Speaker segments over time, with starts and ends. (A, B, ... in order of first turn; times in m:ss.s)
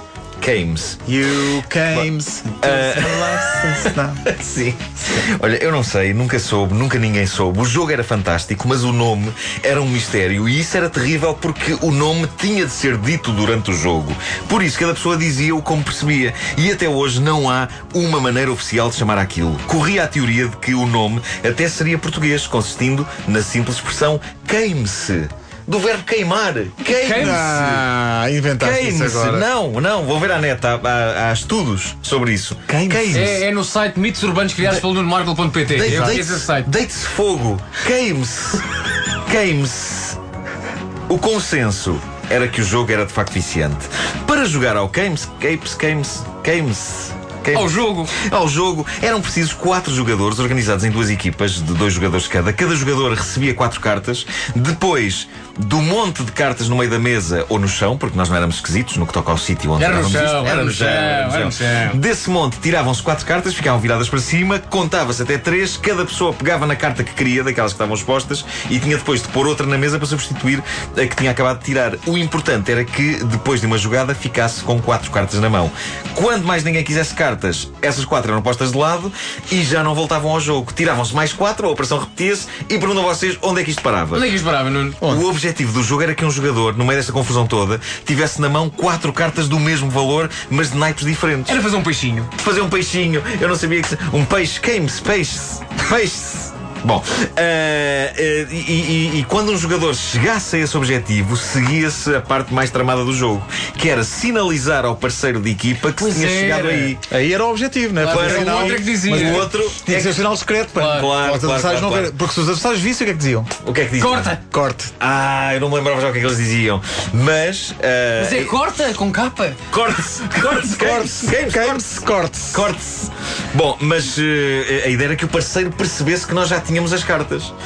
0:00.4-0:01.0 A
0:01.1-0:04.2 B
0:01.9-0:27.9 A
0:26.9-0:27.5 C
0:27.1-0:29.5 B
0:28.6-0:33.4 A
0:32.7-0:33.3 B
0:33.1-0:36.7 C
0:35.7-0:38.6 A
0:35.9-0:36.2 B
0:39.3-0:40.2 A
0:41.1-1:24.3 A
0:47.5-0:48.1 C
0:59.8-1:02.0 C
1:24.1-1:25.1 C
1:25.0-1:31.6 A
1:31.5-1:32.3 C
1:32.4-1:47.1 A
1:45.9-1:47.0 C
1:47.1-1:53.5 B
1:48.0-1:49.5 C
1:48.0-1:50.3 A
1:50.7-1:51.2 C
1:50.8-1:52.2 A
1:53.6-1:54.4 A
1:54.0-1:54.4 C
1:54.5-1:54.9 B
1:55.0-1:58.6 A
1:58.2-2:01.1 C
1:59.7-2:01.9 A
2:00.8-2:02.7 B
2:02.5-2:07.5 A